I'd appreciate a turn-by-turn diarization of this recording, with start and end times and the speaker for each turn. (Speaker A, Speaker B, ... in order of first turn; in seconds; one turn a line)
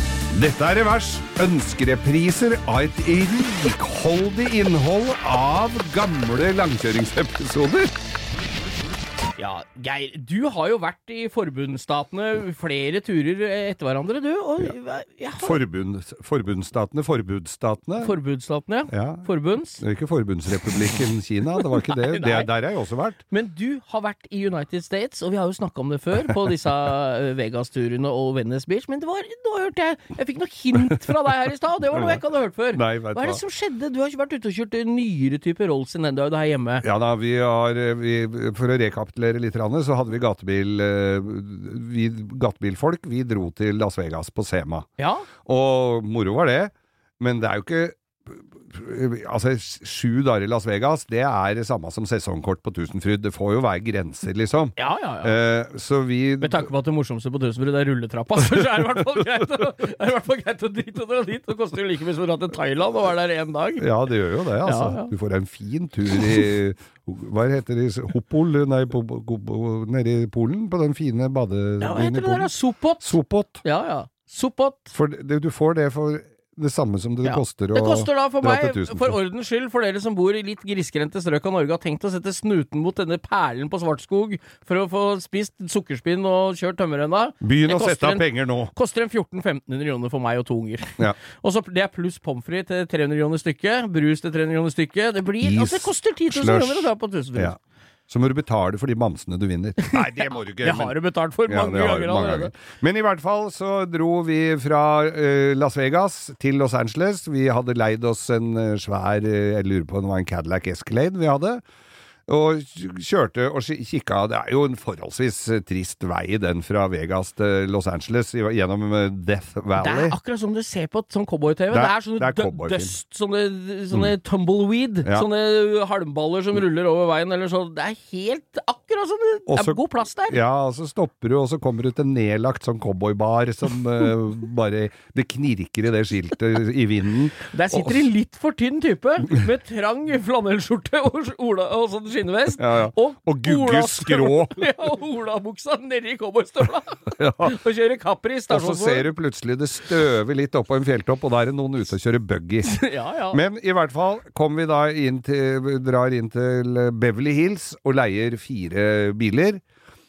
Speaker A: 0.3-7.9
Speaker B: 9.4-15.6
Speaker A: 15.4-18.1
Speaker B: 18.0-19.8
Speaker A: 18.9-19.3
Speaker A: 19.8-23.2
Speaker B: 21.6-22.5
Speaker B: 23.3-36.8
Speaker A: 31.9-32.2
Speaker A: 32.7-33.4
Speaker A: 36.8-44.9
Speaker B: 45.0-45.3
Speaker A: 45.4-56.7
Speaker B: 54.8-55.4
Speaker B: 56.4-63.9
Speaker A: 58.4-59.4
Speaker A: 63.8-73.6
Speaker B: 64.6-65.1
Speaker B: 66.1-66.4
Speaker B: 71.8-74.9
Speaker A: 74.9-79.2
Speaker B: 77.2-97.5
Speaker A: 87.4-88.7
Speaker A: 95.4-97.6
Speaker A: 98.1-100.9
Speaker B: 99.8-102.6
Speaker A: 101.5-111.6
Speaker A: 112.3-120.2
Speaker B: 119.8-130.4
Speaker A: 121.7-122.9
Speaker A: 129.5-138.1
Speaker B: 137.5-149.1
Speaker A: 142.6-144.6
Speaker A: 147.1-147.5
Speaker A: 148.5-152.8
Speaker B: 152.6-153.4
Speaker A: 153.3-159.6